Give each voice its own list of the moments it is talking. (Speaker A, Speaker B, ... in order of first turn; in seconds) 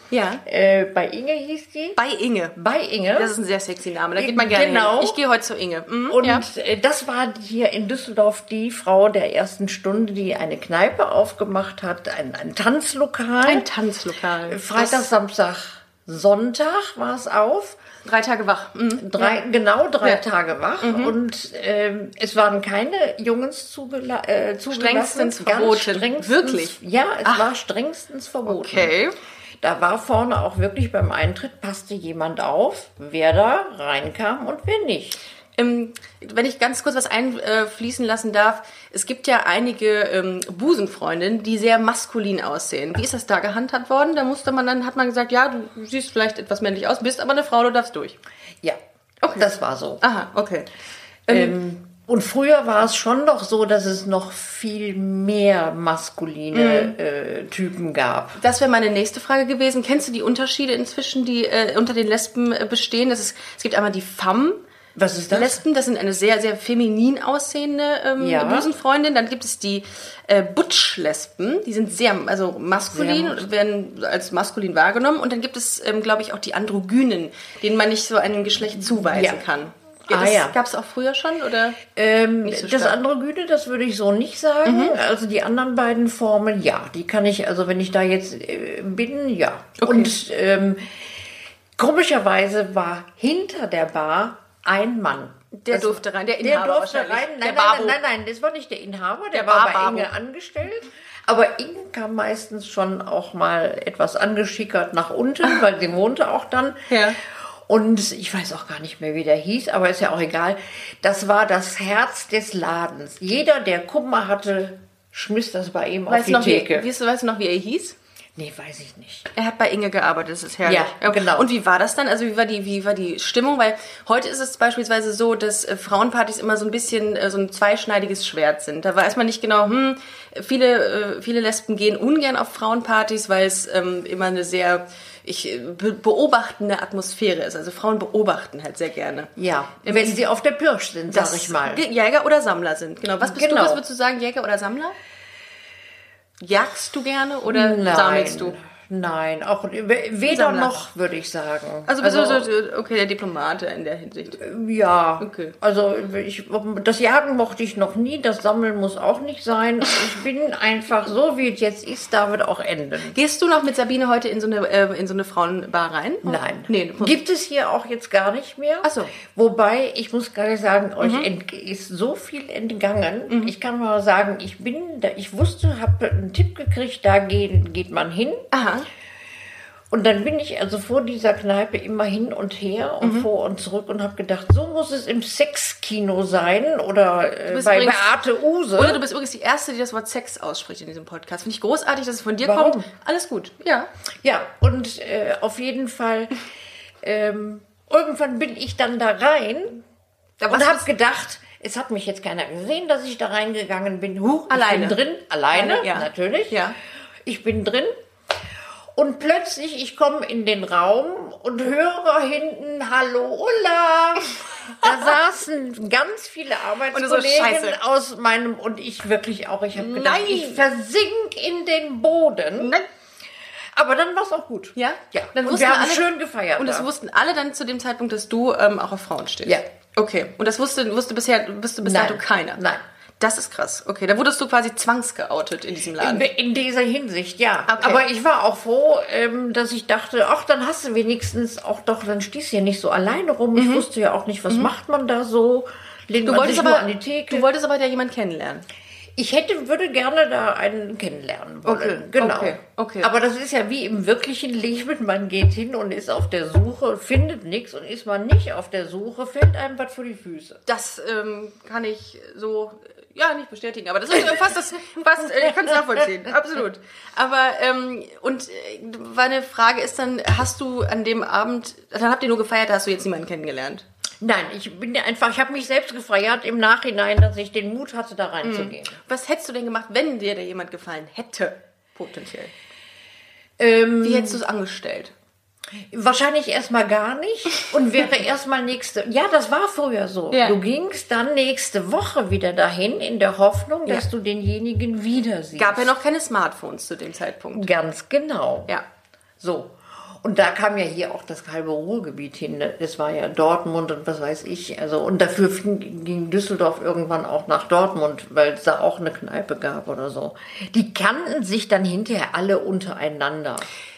Speaker A: 0.1-0.4, 1.9-2.5, 3.1-6.4, 13.4-15.1, 18.0-19.4, 20.8-21.1, 24.7-27.4, 28.4-29.1, 35.6-48.1, 49.2-49.5, 50.0-50.7, 51.3-51.5, 56.5-56.9, 58.4-64.6, 65.3-81.8, 82.4-83.0, 84.6-84.9, 89.8-90.1, 95.5-98.0, 99.3-100.1, 106.9-107.2, 116.1-118.0, 119.3-139.3, 139.8-140.2, 141.1-144.9, 146.4-148.6, 150.3-150.8, 151.9-154.4, 155.2-155.5, 163.1-167.2, 168.8-169.1, 171.0-171.3, 178.5-178.9, 183.0-183.3, 187.5-188.2, 188.8-193.9, 200.4-200.9, 204.5-205.0, 205.5-206.8, 216.9-217.8, 219.8-220.6, 222.6-222.8, 224.8-226.1, 226.6-232.6, 233.2-236.3, 237.7-238.0, 243.5-243.9, 246.2-248.6, 251.6-253.1, 260.7-273.8, 278.4-282.5, 284.0-285.1, 290.3-290.6, 295.6-297.7
Speaker B: 0.4-2.0, 2.5-3.3, 4.2-5.2, 6.1-13.7, 14.5-17.8, 19.0-28.9, 29.6-35.2, 49.4-50.0, 51.3-58.4, 65.0-65.6, 68.2-68.7, 72.9-73.5, 78.9-79.5, 80.1-80.6, 81.9-91.2, 91.8-107.0, 107.7-116.9, 118.4-119.3, 120.6-121.5, 139.4-141.8, 143.2-143.8, 147.5-152.5, 154.4-163.2, 166.2-178.4, 179.9-189.0, 192.4-192.9, 194.2-196.4, 197.0-199.8, 200.4-206.6, 207.2-207.9, 208.9-222.8, 223.8-226.9, 231.8-232.8, 236.0-247.5, 249.2-260.6, 274.2-279.0, 283.6-284.4, 285.9-295.9, 297.5-298.7, 299.4-313.7